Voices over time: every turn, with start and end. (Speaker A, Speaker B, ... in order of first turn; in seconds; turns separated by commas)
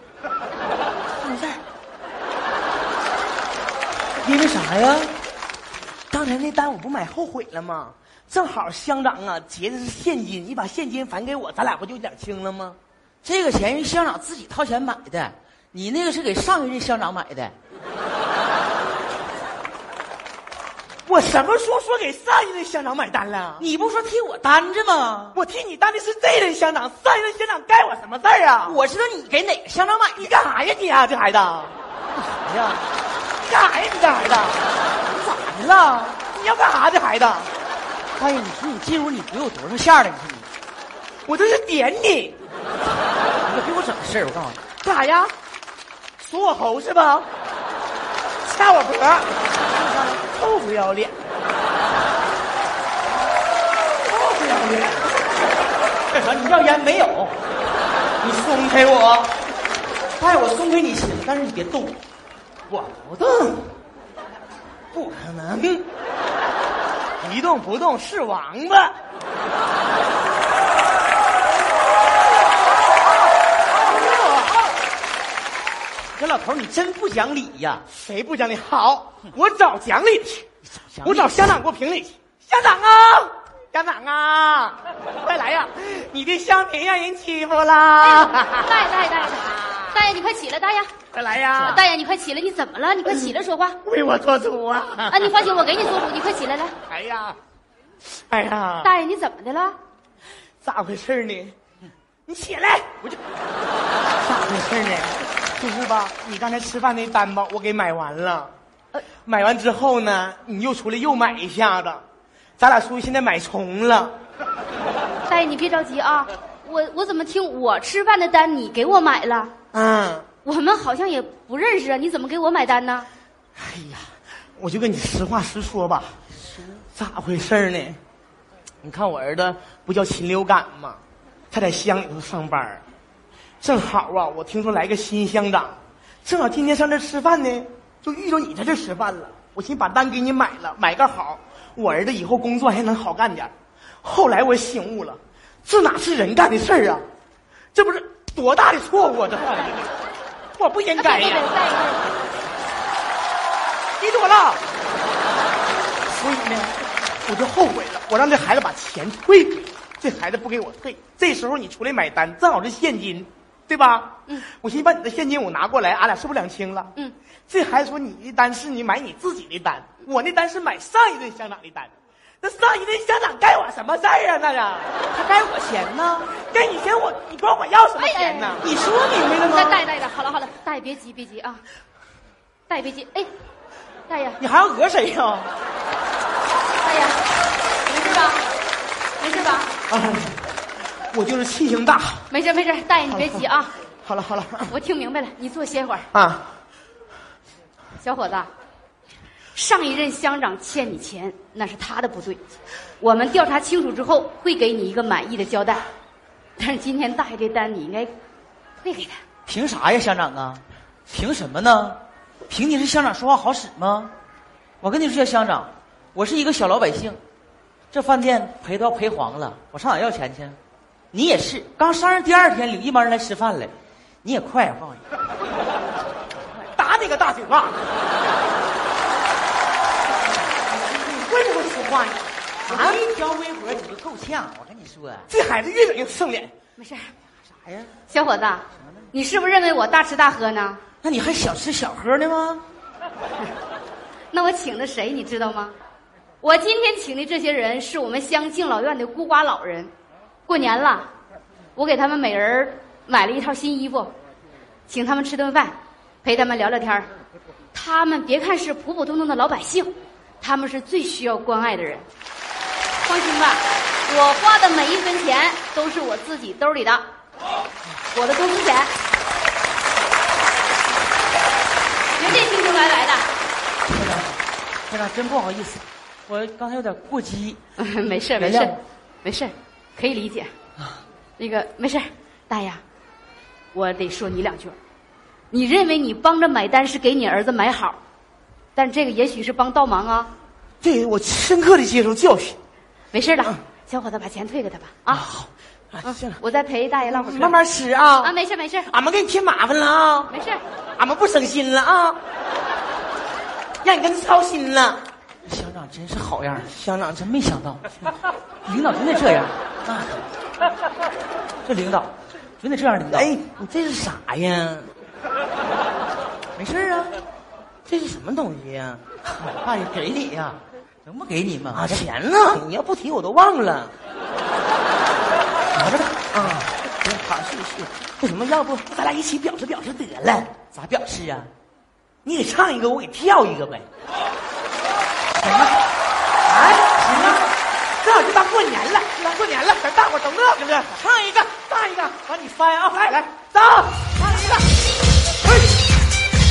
Speaker A: 1.2-1.6, Speaker B: 4.2-5.2, Speaker A: 6.1-12.8, Speaker B: 13.2-17.5, Speaker A: 21.1-23.7, Speaker B: 23.6-25.4, Speaker A: 25.3-28.8, Speaker B: 28.6-30.3, Speaker A: 30.2-31.7, Speaker B: 32.1-32.9, Speaker A: 33.4-34.6, Speaker B: 35.1-36.2, Speaker A: 36.2-37.5, Speaker B: 38.2-40.5, Speaker A: 41.2-42.3, Speaker B: 43.4-44.6, Speaker A: 44.8-45.3, Speaker A: 46.2-47.3, Speaker A: 48.4-49.3, Speaker B: 49.5-50.2, Speaker A: 50.3-51.2, Speaker A: 54.0-55.2, Speaker B: 56.1-57.4, Speaker A: 58.2-59.4, Speaker B: 60.2-62.0, Speaker A: 62.7-63.7, Speaker A: 64.9-65.8, Speaker A: 67.2-69.0, Speaker A: 73.7-74.6, Speaker B: 76.1-77.8, Speaker A: 77.9-80.5, Speaker B: 80.7-81.4, Speaker A: 81.0-88.7, Speaker C: 88.0-90.9, Speaker A: 91.1-91.8, Speaker C: 91.5-93.8, Speaker A: 93.0-95.5, Speaker C: 95.1-96.7, Speaker A: 96.9-97.4, Speaker A: 98.1-98.9, Speaker C: 98.8-99.8, Speaker A: 100.6-101.5, Speaker A: 102.3-103.0, Speaker A: 104.2-108.5, Speaker A: 109.2-112.0, Speaker A: 112.6-114.1, Speaker C: 115.3-119.5, Speaker A: 119.7-120.2, Speaker C: 120.4-123.1, Speaker A: 123.5-126.2, Speaker A: 126.9-128.0, Speaker A: 128.8-131.0, Speaker A: 131.5-132.8, Speaker A: 133.6-143.5, Speaker A: 144.0-147.0, Speaker A: 147.7-149.9, Speaker A: 150.6-151.5, Speaker C: 151.0-152.1, Speaker A: 154.0-154.6, Speaker A: 156.1-166.9, Speaker A: 167.5-174.9, Speaker B: 175.1-176.3, Speaker A: 176.3-178.7, Speaker C: 178.0-178.6, Speaker B: 178.6-179.8, Speaker C: 179.4-181.6, Speaker C: 182.7-183.3, Speaker C: 184.1-184.4, Speaker B: 184.4-185.5, Speaker C: 186.8-187.3, Speaker C: 187.8-188.4, Speaker C: 189.2-189.7, Speaker A: 189.9-190.4, Speaker A: 191.1-192.3, Speaker C: 192.3-193.8, Speaker A: 193.1-193.5, Speaker A: 194.0-194.7, Speaker C: 194.7-196.1, Speaker A: 196.1-196.5, Speaker C: 198.0-198.5, Speaker C: 199.5-202.4, Speaker C: 203.0-205.8, Speaker C: 206.6-208.1, Speaker C: 208.8-209.2, Speaker B: 209.5-214.1, Speaker B: 214.8-217.2, Speaker B: 217.9-220.6, Speaker B: 221.1-225.1, Speaker A: 226.6-227.8, Speaker A: 230.5-233.0, Speaker B: 232.7-235.3, Speaker A: 235.3-236.5, Speaker C: 236.8-237.1, Speaker B: 237.5-238.0, Speaker C: 238.1-240.8, Speaker B: 238.8-239.1, Speaker B: 241.0-242.7, Speaker C: 244.3-245.8, Speaker C: 246.4-249.9, Speaker C: 250.5-251.1, Speaker C: 251.8-254.1, Speaker C: 254.9-257.1, Speaker C: 257.7-262.1, Speaker C: 263.0-267.1, Speaker C: 268.1-268.9, Speaker C: 272.1-273.3, Speaker B: 273.9-277.6, Speaker C: 277.8-280.5, Speaker B: 278.3-278.8, Speaker C: 281.4-282.8, Speaker C: 283.7-284.8, Speaker C: 285.5-288.0, Speaker C: 288.8-290.3, Speaker A: 290.8-292.6, Speaker C: 293.1-295.2, Speaker A: 295.1-296.4, Speaker C: 296.0-297.6, Speaker A: 297.1-298.3, Speaker C: 298.2-298.9, Speaker A: 298.9-300.3, Speaker C: 300.3-300.6, Speaker A: 301.0-302.2, Speaker A: 303.8-305.0, Speaker B: 305.4-307.8, Speaker A: 306.6-307.2, Speaker B: 308.6-310.3, Speaker B: 311.6-313.3, Speaker A: 313.1-314.9, Speaker B: 316.6-317.2, Speaker A: 317.9-319.0, Speaker B: 319.2-322.0, Speaker A: 321.7-323.9, Speaker B: 325.7-326.7, Speaker A: 326.3-330.5, Speaker B: 330.7-331.5, Speaker A: 332.2-333.9, Speaker B: 335.4-335.7, Speaker A: 336.5-336.9, Speaker B: 336.7-337.4, Speaker A: 338.0-342.5, Speaker B: 341.0-343.1, Speaker A: 343.1-344.6, Speaker B: 344.2-344.5